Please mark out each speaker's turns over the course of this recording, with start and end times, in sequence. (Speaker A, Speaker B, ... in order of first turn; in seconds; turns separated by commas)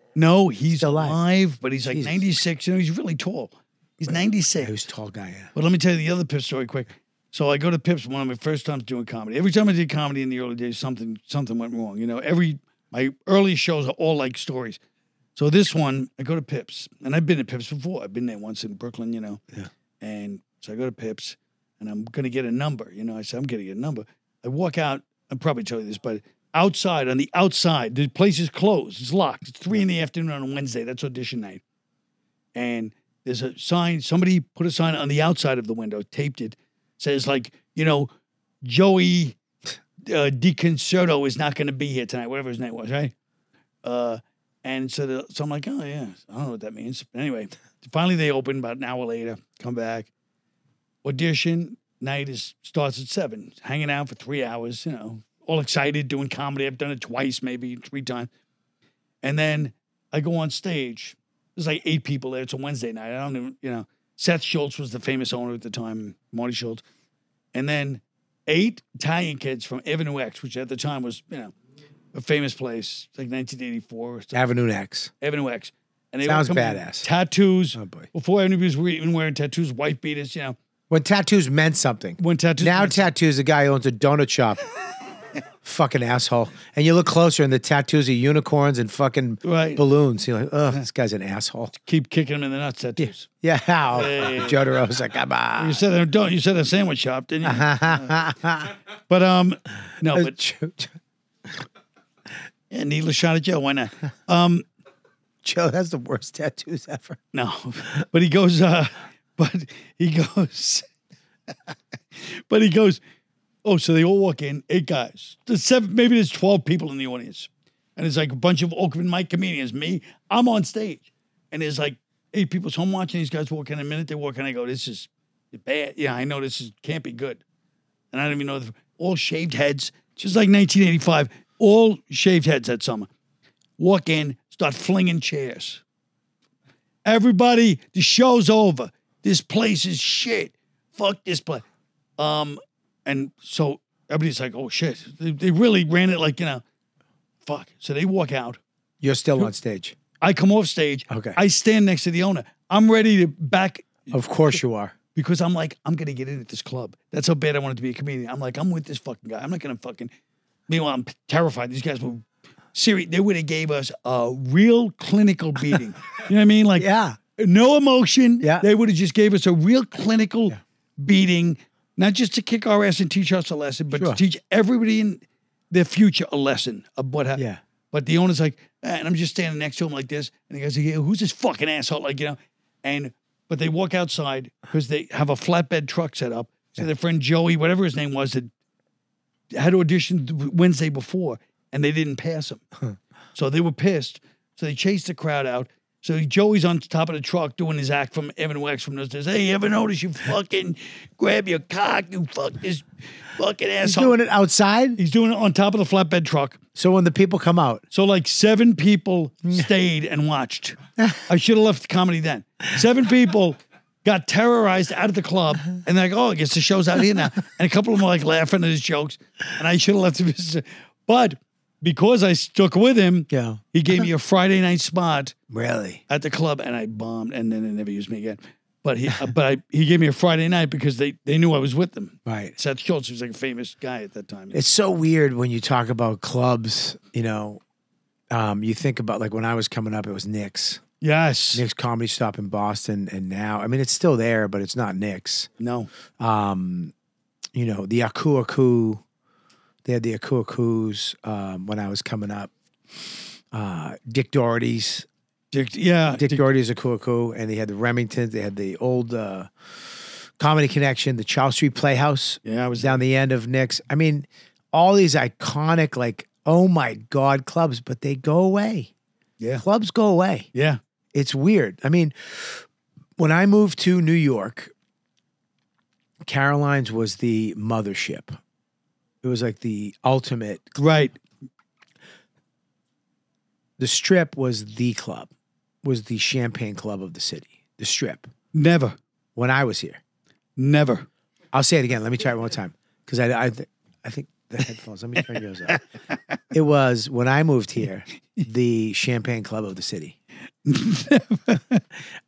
Speaker A: 0.1-4.7, Speaker B: 0.8-1.2, Speaker B: 1.9-2.2, Speaker B: 4.6-5.5, Speaker A: 5.5-14.8, Speaker A: 15.4-19.4, Speaker A: 20.0-31.6, Speaker A: 32.5-38.1, Speaker A: 38.6-39.4, Speaker A: 40.0-43.1, Speaker A: 43.8-50.1, Speaker A: 51.0-58.3, Speaker A: 59.2-66.8, Speaker A: 67.5-71.5, Speaker A: 72.1-74.4, Speaker B: 74.3-75.1, Speaker A: 75.2-80.6, Speaker B: 76.2-77.1, Speaker B: 77.8-78.1, Speaker B: 80.9-84.6, Speaker A: 82.2-83.1, Speaker B: 85.6-91.7, Speaker A: 89.5-89.8, Speaker A: 91.9-93.3, Speaker B: 93.4-95.8, Speaker A: 93.9-94.6, Speaker A: 95.6-98.1, Speaker B: 97.4-98.7, Speaker A: 99.1-100.3, Speaker B: 100.1-101.0, Speaker A: 102.7-104.7, Speaker B: 105.4-107.2, Speaker A: 107.3-110.8, Speaker A: 112.2-113.0, Speaker A: 113.7-127.4, Speaker A: 128.1-133.1, Speaker A: 133.8-135.8, Speaker A: 137.1-141.6, Speaker A: 142.2-146.6, Speaker A: 147.4-148.6, Speaker B: 149.0-150.0, Speaker A: 150.2-154.2, Speaker B: 151.1-151.4, Speaker B: 154.1-154.9, Speaker A: 155.2-160.1, Speaker A: 160.7-188.5, Speaker B: 166.8-167.2, Speaker B: 173.9-174.2, Speaker A: 189.5-192.6, Speaker A: 193.3-204.2, Speaker B: 203.8-205.0, Speaker A: 205.0-206.6, Speaker B: 206.8-207.8, Speaker A: 207.9-210.8, Speaker A: 211.3-225.3, Speaker B: 223.3-223.6, Speaker B: 225.5-226.0, Speaker A: 226.1-234.6, Speaker B: 232.3-232.6, Speaker B: 234.5-237.6, Speaker B: 238.3-240.8, Speaker A: 241.0-241.6, Speaker B: 241.5-245.5, Speaker A: 245.6-245.9, Speaker B: 246.2-246.9, Speaker B: 247.6-249.0, Speaker B: 249.8-252.5, Speaker B: 253.5-255.1, Speaker A: 255.5-256.5, Speaker B: 256.1-259.5, Speaker B: 260.4-268.9, Speaker A: 262.4-263.0, Speaker B: 269.6-270.5, Speaker B: 271.1-272.6, Speaker B: 273.2-274.7, Speaker B: 276.2-278.4, Speaker B: 279.2-280.8, Speaker A: 280.8-281.2, Speaker B: 283.8-285.3, Speaker B: 285.8-288.3, Speaker A: 288.5-289.0, Speaker B: 289.4-290.0, Speaker A: 290.6-291.1, Speaker B: 291.5-295.8, Speaker B: 296.5-300.2, Speaker A: 300.7-301.8